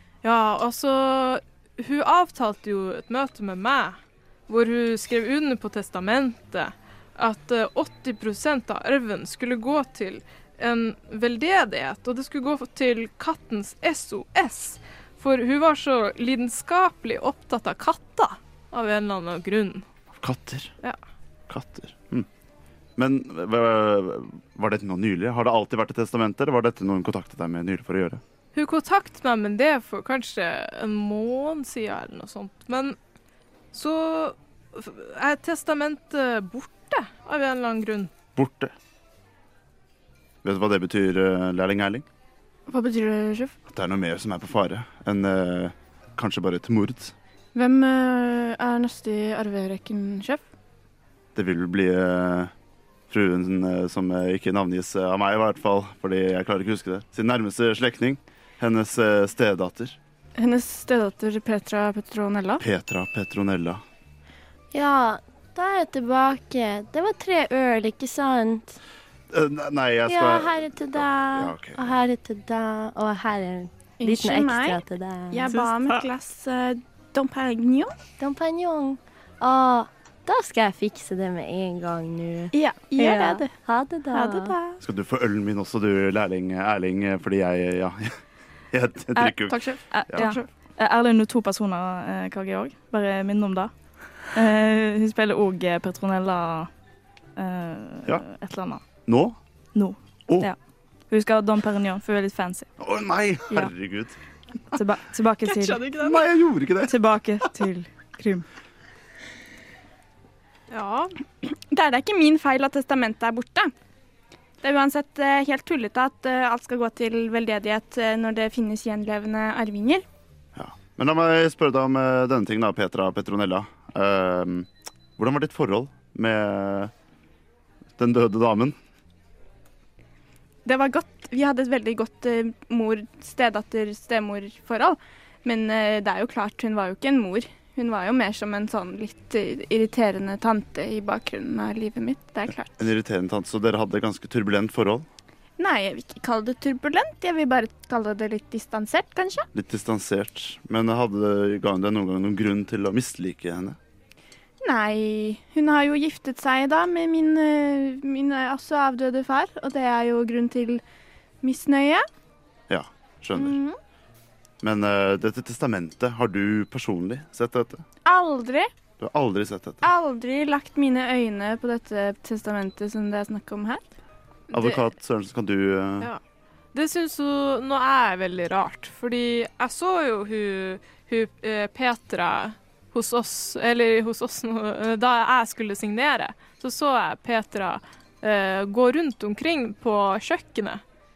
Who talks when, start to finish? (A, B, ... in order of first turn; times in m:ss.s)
0:00.2-0:19.8 A
0:20.2-0:20.7 B
0:21.5-0:22.3 B
0:23.0-0:28.2 B
0:28.6-0:33.0 A
0:33.7-0:38.1 A
0:38.4-0:38.8 B
0:40.4-0:42.1 B
0:42.7-0:43.6 C
0:43.7-0:47.2 B
0:47.6-0:50.4 C
0:51.4-0:52.5 B
0:53.1-1:00.0 B
1:00.4-1:02.6 C
1:02.6-1:03.8 B
1:04.7-1:08.8 D
1:09.3-1:12.0 B
1:10.1-1:15.5 D
1:14.0-1:18.0 C
1:15.5-1:16.1 A
1:18.2-1:24.6 D
1:22.5-1:23.5 C
1:24.1-1:24.8 C
1:24.8-1:28.2 B
1:28.7-1:30.3 B
1:29.2-1:33.7 E
1:29.5-1:30.4 C
1:34.3-1:36.7 E
1:37.4-1:38.8 E
1:39.1-1:39.4 B
1:39.8-1:40.6 E
1:41.1-1:42.7 E
1:42.8-1:44.2 B
1:44.7-1:45.9 E
1:45.4-1:46.2 A
1:46.0-1:47.0 B
1:46.8-1:48.5 E
1:50.7-1:51.2 A
1:51.4-1:53.7 C
1:54.6-2:00.0 C
2:00.6-2:06.9 B
2:08.0-2:08.8 B
2:10.6-2:22.8 C
2:22.8-2:25.1 B
2:25.6-2:29.5 C
2:29.5-2:33.8 B
2:34.6-2:40.8 C
2:41.4-2:42.1 C
2:42.7-2:43.6 B
2:43.4-2:43.8 C
2:44.6-2:47.8 B
2:48.0-2:48.7 C
2:49.0-2:49.8 B
2:49.8-2:53.9 C
2:54.5-2:54.8 A
2:54.5-2:56.1 B
2:56.7-3:10.8 A